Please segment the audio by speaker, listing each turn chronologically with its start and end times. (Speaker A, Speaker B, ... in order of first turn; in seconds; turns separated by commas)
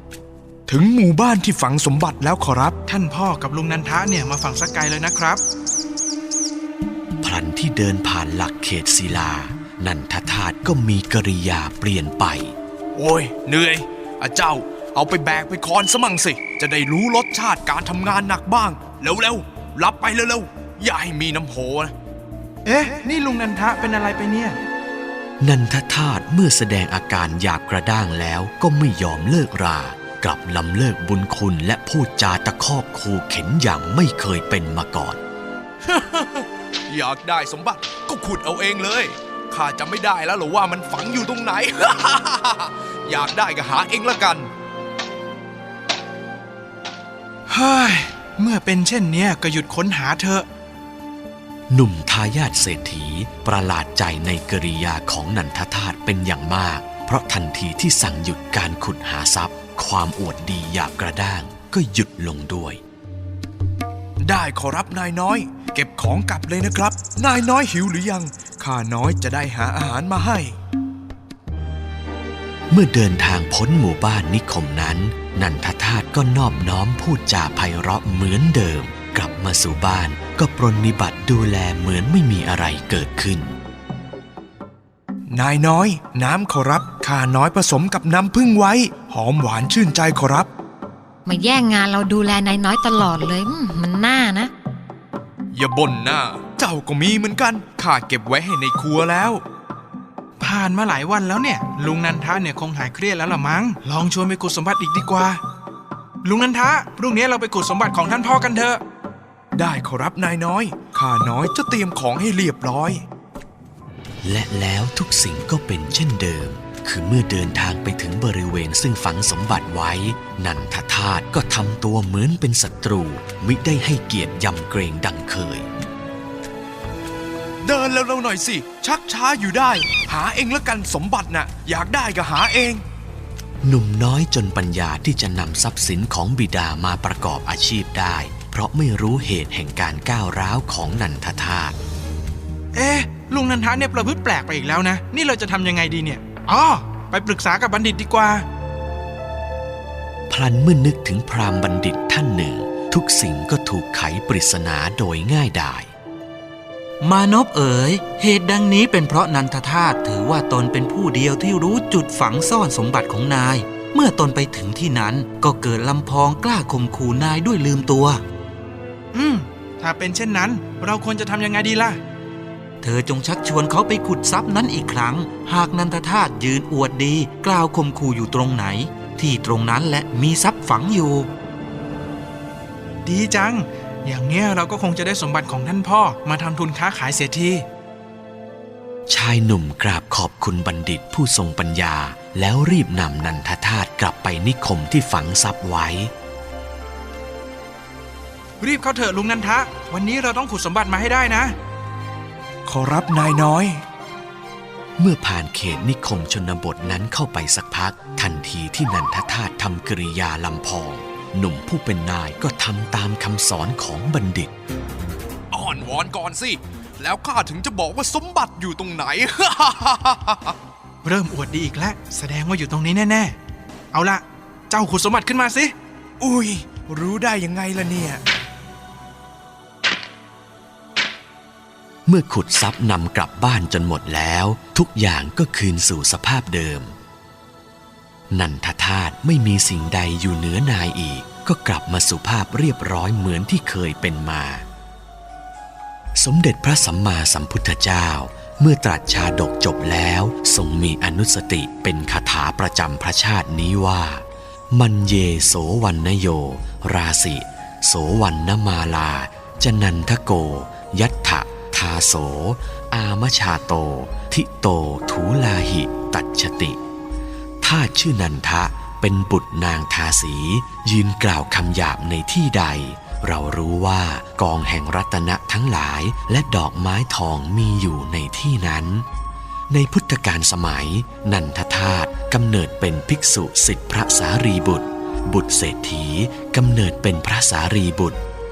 Speaker A: 0.7-2.8, Speaker B: 2.9-5.4, Speaker C: 7.2-12.5, Speaker A: 12.9-21.9, Speaker B: 22.6-24.6, Speaker C: 25.4-35.2, Speaker A: 35.9-44.5, Speaker B: 47.5-50.5, Speaker C: 51.7-62.8, Speaker A: 64.2-70.5, Speaker C: 72.7-83.6, Speaker A: 85.3-90.5, Speaker D: 91.2-94.5, Speaker A: 95.5-99.4, Speaker B: 100.4-105.4, Speaker B: 106.2-108.8, Speaker A: 109.5-113.0, Speaker C: 114.2-125.7, Speaker A: 127.6-132.8, Speaker C: 133.6-141.8, Speaker B: 142.8-148.4, Speaker C: 150.3-155.9, Speaker E: 157.0-168.2, Speaker B: 169.1-172.0, Speaker E: 172.8-181.3, Speaker B: 183.0-187.6, Speaker C: 189.1-196.1, Speaker B: 198.6-201.5, Speaker A: 202.7-203.8, Speaker C: 205.0-214.5, Speaker A: 215.5-220.5, Speaker B: 221.0-223.4, Speaker B: 223.9-225.7, Speaker A: 226.2-228.2, Speaker C: 232.1-236.9, Speaker C: 238.3-244.6, Speaker C: 246.2-266.8, Speaker C: 267.6-279.1, Speaker C: 279.7-288.2